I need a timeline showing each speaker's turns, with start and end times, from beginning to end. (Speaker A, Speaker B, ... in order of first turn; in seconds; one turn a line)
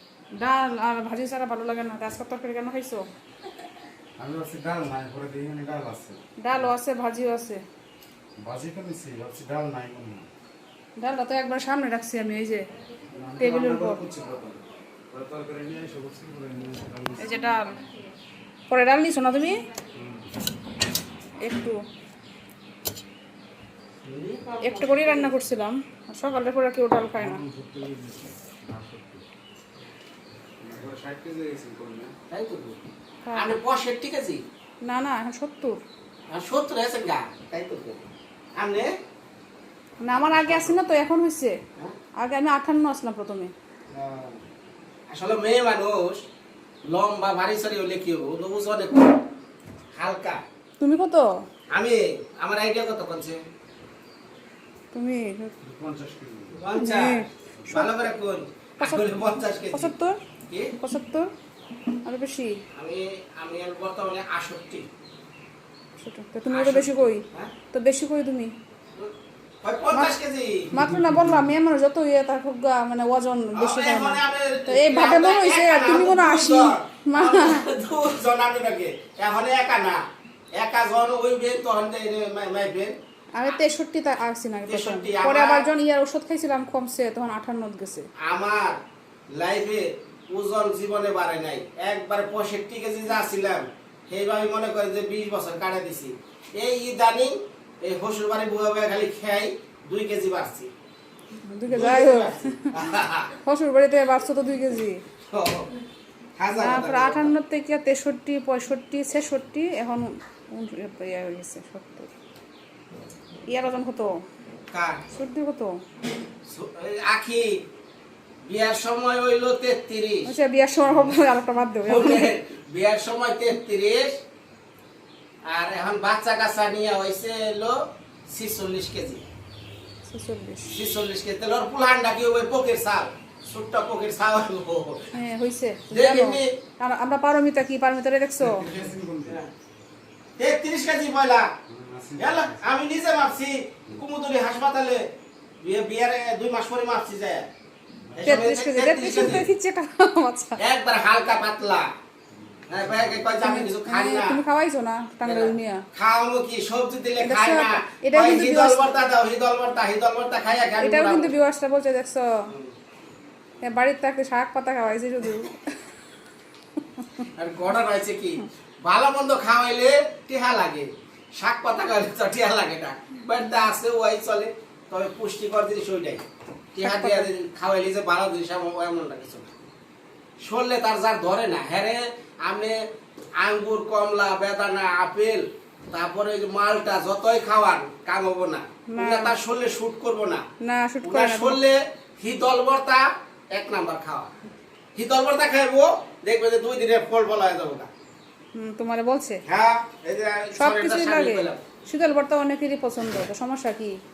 Speaker A: 0.4-3.0
Speaker B: 4.2-6.2
Speaker A: 6.4-7.6
Speaker B: 8.4-10.3
Speaker A: 11.0-12.6
Speaker B: 13.1-17.3
Speaker A: 13.4-14.0
Speaker A: 17.2-17.8
Speaker A: 18.7-19.6
Speaker B: 19.9-20.3
Speaker A: 21.4-21.8
Speaker C: 24.0-25.3
Speaker A: 24.6-27.4
Speaker B: 27.1-29.2
Speaker B: 30.6-32.1
Speaker C: 32.3-32.8
Speaker A: 33.2-33.5
Speaker C: 33.3-34.4
Speaker A: 34.8-35.8
Speaker C: 36.3-38.0
Speaker C: 38.6-38.9
Speaker A: 40.0-41.6
Speaker C: 40.2-40.8
Speaker A: 42.2-43.5
Speaker C: 43.9-44.4
Speaker C: 45.1-46.2
Speaker C: 46.8-49.2
Speaker C: 49.9-50.4
Speaker A: 50.8-51.2
Speaker C: 51.7-53.4
Speaker A: 54.9-55.5
Speaker B: 55.6-56.6
Speaker C: 56.5-59.9
Speaker A: 56.8-57.9
Speaker A: 58.8-60.2
Speaker A: 60.8-61.3
Speaker A: 62.0-62.5
Speaker C: 62.7-64.9
Speaker A: 66.0-68.5
Speaker C: 66.5-67.5
Speaker C: 69.6-70.7
Speaker A: 69.9-70.2
Speaker A: 70.7-77.6
Speaker B: 70.7-71.5
Speaker C: 73.5-80.0
Speaker C: 80.5-83.6
Speaker A: 83.4-88.0
Speaker C: 84.7-85.7
Speaker C: 88.2-88.8
Speaker C: 89.4-100.7
Speaker A: 101.5-102.7
Speaker C: 101.7-103.3
Speaker A: 103.4-105.0
Speaker C: 105.3-105.7
Speaker C: 106.4-107.3
Speaker A: 106.5-112.1
Speaker A: 113.5-114.2
Speaker C: 114.7-115.0
Speaker A: 115.1-115.7
Speaker C: 116.5-117.6
Speaker C: 118.5-120.3
Speaker A: 120.2-122.3
Speaker C: 121.9-124.2
Speaker C: 125.5-129.2
Speaker A: 130.1-130.8
Speaker C: 130.7-135.1
Speaker A: 135.1-138.7
Speaker C: 135.9-136.5
Speaker B: 138.4-139.4
Speaker C: 140.4-141.5
Speaker B: 141.7-142.6
Speaker C: 142.2-145.0
Speaker C: 145.6-147.5
Speaker B: 148.1-148.4
Speaker C: 148.2-149.5
Speaker A: 148.2-150.6
Speaker C: 150.6-151.9
Speaker B: 152.7-153.2
Speaker C: 152.7-154.4
Speaker A: 153.4-155.8
Speaker C: 155.2-161.3
Speaker A: 157.2-159.0
Speaker A: 160.8-162.2
Speaker A: 163.6-165.6
Speaker C: 167.3-176.2
Speaker C: 176.7-179.5
Speaker A: 176.8-177.3
Speaker C: 180.4-182.8
Speaker C: 183.4-190.4
Speaker A: 188.9-189.4
Speaker A: 190.6-191.6
Speaker C: 191.0-194.3
Speaker C: 194.9-197.9
Speaker A: 198.5-199.4
Speaker C: 199.5-201.6
Speaker A: 200.6-204.0